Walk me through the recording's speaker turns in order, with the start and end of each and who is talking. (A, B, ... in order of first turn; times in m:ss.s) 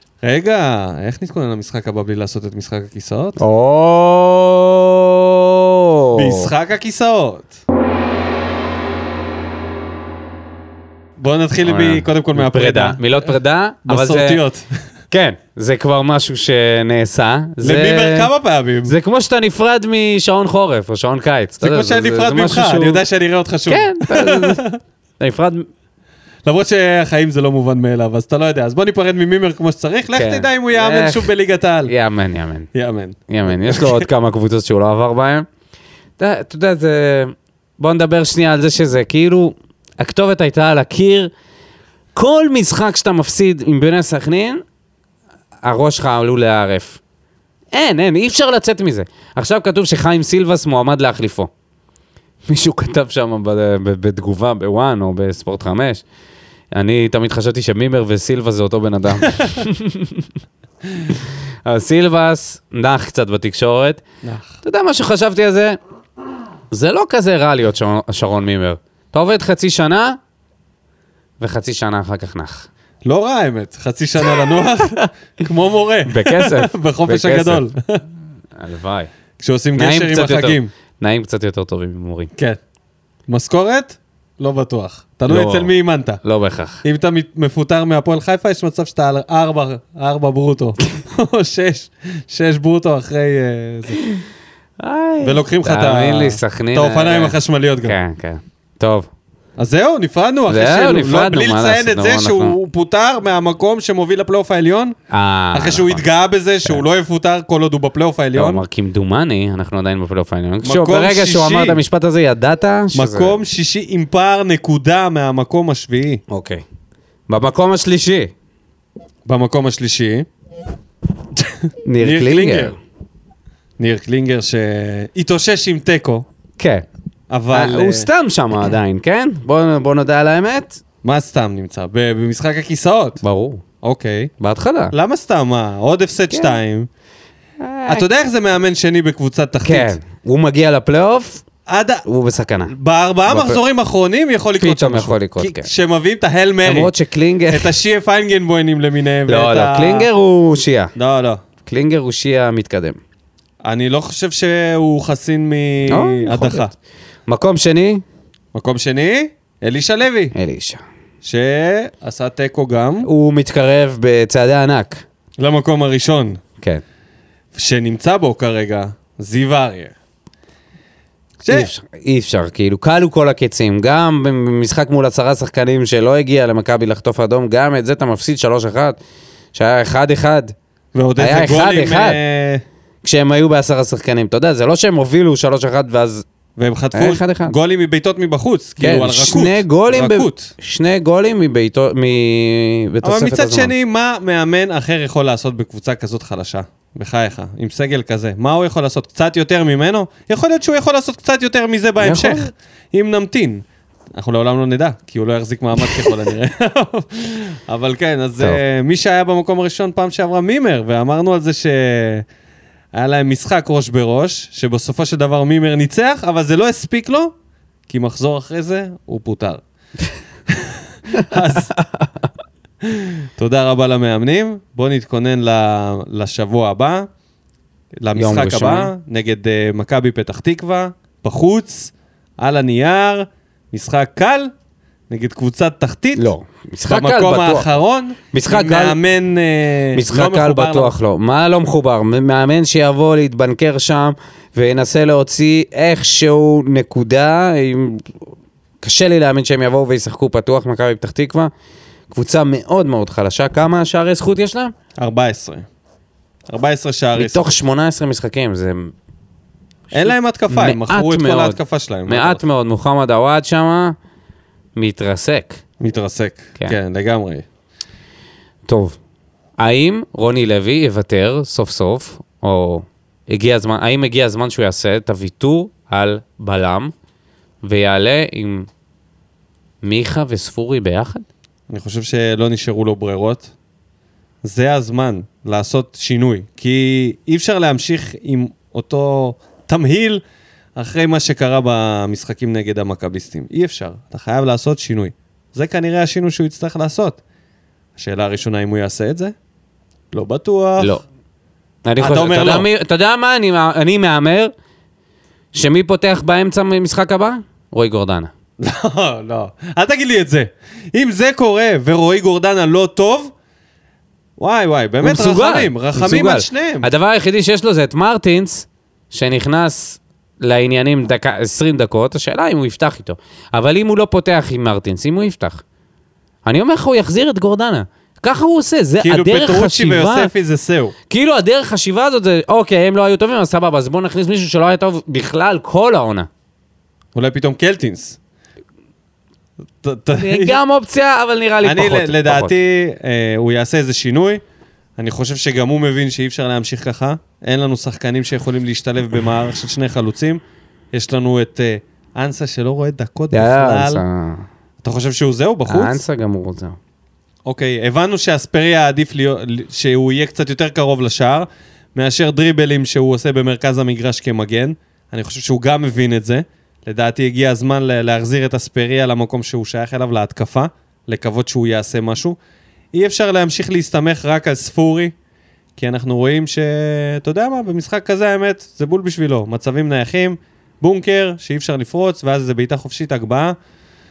0:00.2-0:03.4 A
0:03.4-0:06.5 B
0:06.1-0:07.6 A
0:11.2-0:13.3 A
0:11.6-0:14.4 B
0:13.9-0:14.8 A
0:15.1-0:18.3 B
0:17.6-0:19.0 A
0:18.9-0:23.0 B
0:21.6-0:24.8 A
0:23.7-0:24.6 B
0:25.2-0:25.7 B
0:26.5-0:31.9 A
0:30.1-0:31.3 B
0:31.9-0:32.7 B
0:32.7-0:34.1 A
0:33.3-0:35.5 B
0:36.2-0:41.3 B
0:42.2-0:44.6 B
0:45.6-0:47.0 B
0:47.7-0:51.5 B
0:52.5-0:56.0 B
0:56.7-1:00.3 B
1:01.1-1:04.0 B
1:04.2-1:04.5 A
1:04.6-1:05.8 B
1:06.7-1:10.2 B
1:11.4-1:12.7 B
1:13.0-1:18.0 A
1:16.1-1:17.6 B
1:18.6-1:19.1 B
1:19.4-1:20.7 A
1:19.8-1:22.3 B
1:23.3-1:26.2 A
1:25.3-1:26.8 B
1:26.8-1:34.0 A
1:34.8-1:39.1 B
1:35.2-1:38.0 A
1:39.6-1:45.0 A
1:40.5-1:42.6 B
1:45.1-1:46.0 B
1:45.5-1:48.6 A
1:48.4-1:53.4 B
1:50.6-1:51.8 A
1:52.9-1:56.2 A
1:56.3-1:56.6 B
1:57.3-1:58.3 B
1:59.3-2:00.3 A
2:01.4-2:02.8 A
2:01.8-2:02.8 B
2:03.8-2:06.2 A
2:06.6-2:06.9 B
2:07.3-2:08.1 A
2:07.5-2:10.8 B
2:11.0-2:13.2 A
2:13.2-2:13.6 B
2:13.8-2:14.3 A
2:14.4-2:14.9 B
2:14.9-2:16.9 A
2:16.3-2:16.6 B
2:17.6-2:18.1 B
2:17.9-2:20.0 A
2:19.6-2:21.4 B
2:21.7-2:22.0 A
2:22.0-2:22.7 B
2:22.7-2:26.9 A
2:23.3-2:23.6 B
2:24.6-2:25.7 B
2:26.6-2:27.7 B
2:27.5-2:30.1 A
2:29.3-2:30.9 B
2:31.0-2:31.4 A
2:31.6-2:33.0 B
2:33.6-2:36.7 A
2:35.9-2:36.7 B
2:37.3-2:38.0 B
2:38.5-2:40.4 A
2:40.3-2:40.8 B
2:41.2-2:43.1 A
2:43.0-2:45.0 B
2:45.4-2:46.4 A
2:47.6-2:49.9 A
2:51.4-2:51.7 A
2:51.5-2:59.0 B
2:59.5-3:00.5 B
3:00.9-3:02.6 A
3:01.2-3:02.2 B
3:03.0-3:06.2 B
3:06.6-3:10.5 A
3:06.9-3:07.6 B
3:08.8-3:13.7 B
3:13.0-3:23.6 A
3:22.0-3:22.5 B
3:24.2-3:32.2 A
3:25.9-3:26.1 B
3:32.9-3:37.3 A
3:37.9-3:39.6 A
3:40.5-3:41.7 A
3:41.8-3:42.1 B
3:42.9-3:47.1 A
3:48.0-3:54.5 A
3:48.2-3:48.9 B
3:55.1-3:56.3 A
3:56.2-3:57.7 B
3:56.9-4:00.9 A
3:58.3-3:59.0 B
3:59.9-4:08.1 B
4:08.8-4:11.5 B
4:12.1-4:14.7 B
4:15.0-4:15.7 A
4:16.5-4:17.5 A
4:17.2-4:18.9 B
4:19.9-4:22.4 A
4:19.9-4:24.0 B
4:24.8-4:25.6 B
4:25.8-4:27.5 A
4:28.7-4:29.0 B
4:29.6-4:36.9 B
4:37.6-4:38.7 B
4:39.8-4:41.3 B
4:41.7-4:43.5 A
4:44.4-4:50.2 A
4:50.8-4:57.2 A
4:58.0-4:59.4 A
5:00.1-5:01.0 A
5:01.8-5:04.5 B
5:02.0-5:02.7 A
5:05.5-5:08.3 B
5:08.6-5:13.3 A
5:14.4-5:16.9 A
5:15.0-5:25.6 B
5:26.4-5:30.3 B
5:29.0-5:30.9 A
5:31.1-5:36.3 B
5:37.2-5:38.2 A
5:39.8-5:40.6 A
5:40.2-5:42.6 B
5:41.6-5:44.4 A
5:45.0-5:50.4 A
5:50.9-5:54.0 A
5:53.3-5:54.4 B
5:54.8-5:56.0 A
5:55.7-5:56.8 B
5:57.5-6:12.4 A
6:12.9-6:15.1 A
6:15.8-6:23.6 A